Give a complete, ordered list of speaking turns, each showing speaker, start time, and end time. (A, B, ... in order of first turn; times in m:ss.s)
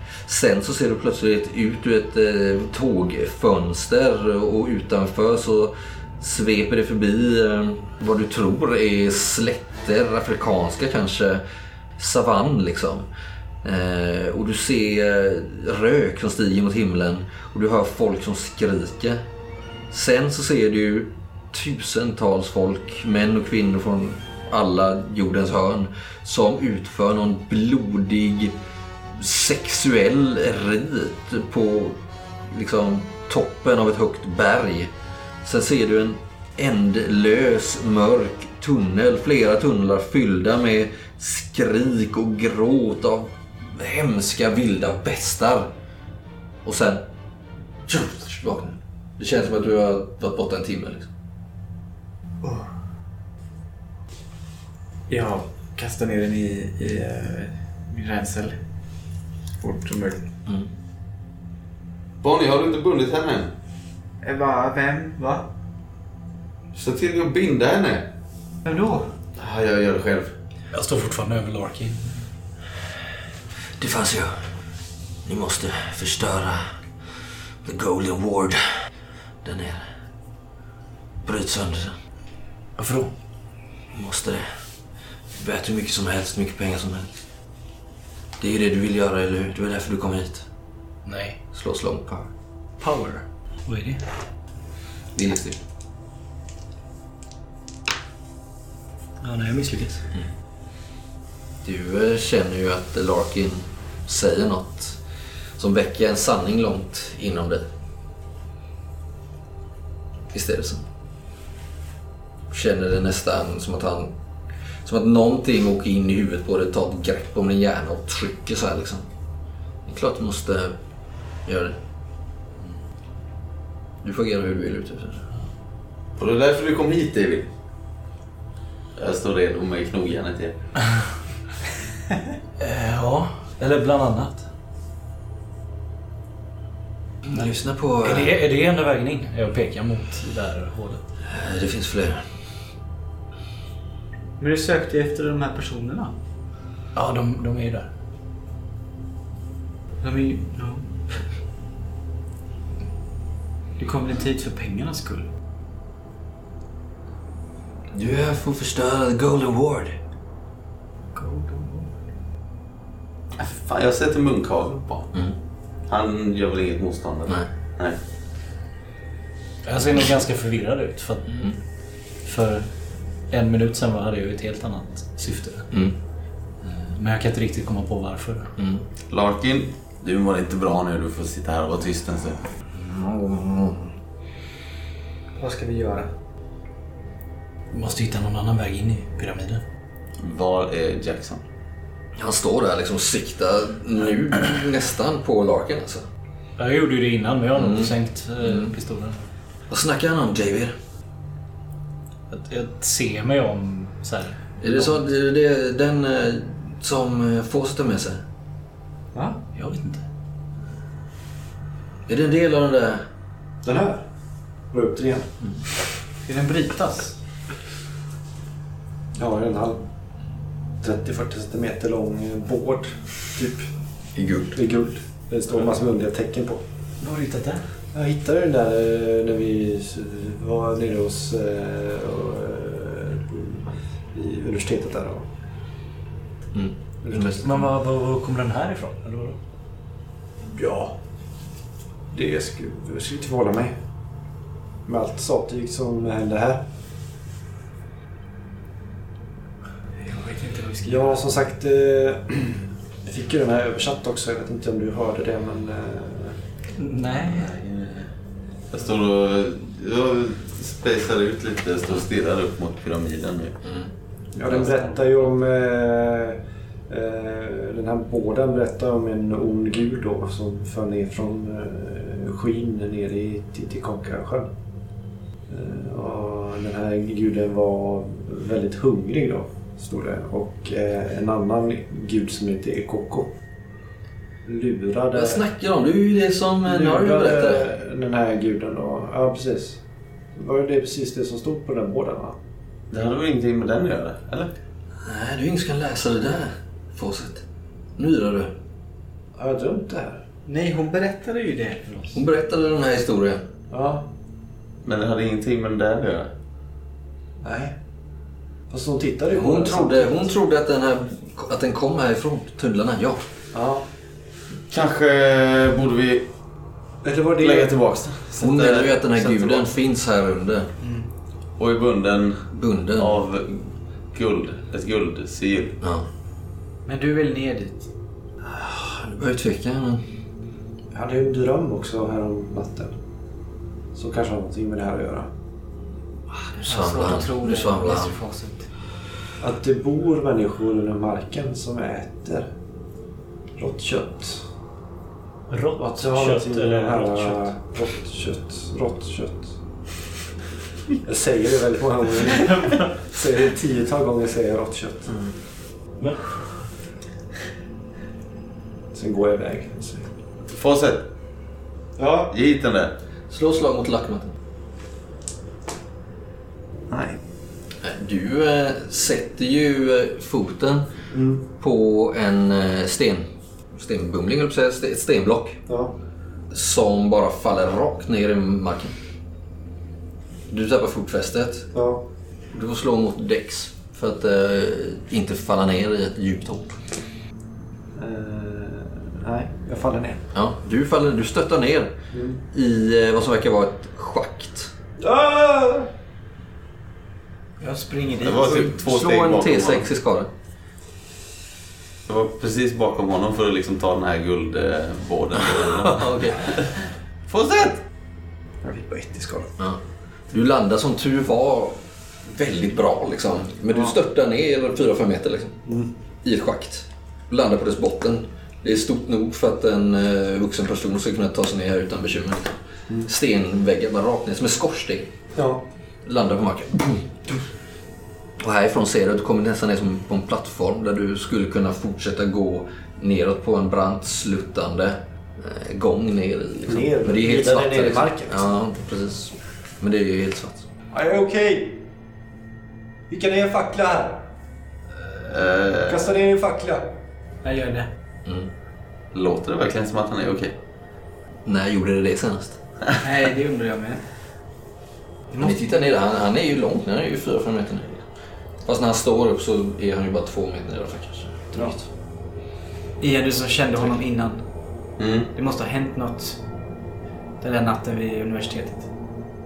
0:00.2-0:11.4 A
0:12.0-0:13.1 A
0:13.6-0:19.2 A
0:19.9-0:28.6 A
0:29.1-0:34.9 A
0:35.4-0:45.7 A
0:46.6-0:47.0 A
0:47.9-0:51.1 A
0:52.4-0:52.7 B
0:55.1-0:58.6 B
0:59.6-1:00.2 B
1:02.2-1:03.5 C
1:04.2-1:05.5 B
1:06.7-1:08.1 C
1:08.6-1:09.1 B
1:09.4-1:10.3 C
1:10.7-1:12.2 D
1:13.8-1:14.4 A
1:15.2-1:16.7 A
1:17.6-1:18.6 A
1:19.4-1:19.9 A
1:21.2-1:22.0 A
1:22.8-1:23.1 D
1:23.9-1:24.5 A
1:25.3-1:27.1 A
1:28.4-1:30.4 A
1:31.0-1:31.4 D
1:31.5-1:32.3 A
1:32.8-1:34.0 D
1:35.2-1:35.5 A
1:39.2-1:40.0 D
1:41.6-1:45.0 A
1:45.6-1:47.7 A
1:50.3-1:50.8 A
1:52.5-1:54.1 A
1:54.8-1:59.0 A
1:59.8-2:00.8 A
2:01.4-2:01.8 A
2:04.0-2:05.2 A
2:06.2-2:07.5 C
2:09.0-2:10.6 C
2:12.6-2:14.4 D
2:17.3-2:18.4 A
2:18.0-2:21.0 D
2:21.3-2:22.2 A
2:24.4-2:26.1 B
2:26.9-2:27.9 D
2:30.0-2:30.9 B
2:33.8-2:35.3 B
2:37.9-2:40.0 A
2:41.1-2:41.9 B
2:43.4-2:45.1 C
2:45.9-2:48.0 C
2:49.6-2:51.5 D
2:51.3-2:51.6 A
2:52.2-2:52.7 D
2:53.3-2:55.7 D
2:55.7-2:56.0 A
2:56.6-2:58.5 D
2:58.6-2:58.8 A
2:59.1-3:02.5 C
3:02.7-3:03.9 A
3:05.4-3:06.1 B
3:07.7-3:09.6 D
3:10.2-3:11.4 C
3:12.2-3:16.0 A
3:16.6-3:19.2 D
3:17.6-3:18.7 A
3:19.7-3:20.7 A
3:22.3-3:24.9 D
3:24.6-3:28.2 A
3:29.1-3:29.4 B
3:29.5-3:30.0 D
3:32.1-3:33.0 A
3:33.6-3:34.0 E
3:34.7-3:35.3 E
3:36.2-3:37.1 B
3:39.2-3:39.8 E
3:40.8-3:43.7 E
3:44.1-3:44.6 A
3:44.5-3:46.6 E
3:47.0-3:47.6 D
3:47.9-3:55.2 E
3:56.5-3:57.6 A
3:57.0-3:57.4 E
3:57.4-3:59.4 D
4:00.5-4:00.9 D
4:02.1-4:03.8 E
4:04.8-4:06.6 E
4:10.0-4:11.2 B
4:10.8-4:16.4 E
4:16.8-4:17.5 D
4:17.1-4:18.1 C
4:18.7-4:23.6 C
4:24.3-4:34.5 E
4:24.4-4:25.2 C
4:35.5-4:43.3 E
4:44.4-4:45.4 E
4:45.1-4:47.7 A
4:46.6-4:49.8 E
4:50.3-4:52.4 E
4:52.9-4:54.5 C
4:55.0-4:57.4 A
4:58.0-4:58.5 A
4:59.4-5:00.2 E
5:00.4-5:02.1 B
5:02.1-5:03.4 A
5:03.7-5:04.0 E
5:04.8-5:06.3 C
5:07.4-5:07.7 E
5:08.7-5:10.2 E
5:09.3-5:13.2 A
5:13.5-5:13.8 E
5:14.7-5:16.3 C
5:17.0-5:17.9 E
5:17.4-5:18.9 C
5:18.4-5:18.8 E
5:18.4-5:20.7 A
5:19.4-5:19.6 E
5:20.8-5:21.1 B
5:21.6-5:25.8 C
5:22.5-5:23.2 A
5:25.8-5:26.1 A
5:26.8-5:27.9 B
5:28.4-5:30.0 A
5:30.9-5:32.9 E
5:33.9-5:35.3 E
5:36.4-5:38.2 A
5:36.6-5:38.6 B
5:39.4-5:42.5 E
5:43.6-5:44.4 E
5:45.5-5:47.5 D
5:45.8-5:49.5 E
5:51.0-5:55.1 E
5:58.9-6:00.1 E
6:00.5-6:01.1 C
6:02.0-6:02.3 E
6:02.3-6:03.0 C
6:03.3-6:04.3 A
6:06.9-6:07.2 E
6:07.8-6:10.9 A
6:11.1-6:11.4 E
6:11.6-6:15.6 A
6:15.7-6:15.9 E
6:16.5-6:19.0 A
6:20.5-6:21.7 A
6:21.7-6:22.0 E
6:22.5-6:26.8 A
6:27.9-6:30.2 E
6:30.3-6:31.9 A
6:32.1-6:32.4 E
6:32.5-6:34.7 A
6:35.0-6:35.9 E
6:37.6-6:38.7 B
6:38.2-6:39.9 C
6:38.4-6:40.3 A
6:42.1-6:47.8 C
6:45.6-6:46.6 A
6:48.6-6:49.5 E
6:49.6-6:55.6 A
6:55.6-6:55.9 E
6:56.2-7:05.1 A
7:05.4-7:05.6 E
7:06.0-7:07.3 A
7:08.4-7:20.6 A
7:16.7-7:18.5 E
7:20.9-7:21.8 E
7:23.1-7:24.3 E
7:25.2-7:26.1 C
7:25.9-7:26.9 E
7:27.4-7:27.9 B
7:29.1-7:30.6 C
7:31.4-7:32.6 A
7:33.0-7:34.0 B
7:35.3-7:35.6 B
7:35.4-7:38.0 A
7:38.6-7:41.9 A
7:43.0-7:44.4 B
7:45.0-7:45.3 C
7:45.3-7:46.4 B
7:47.4-7:48.9 B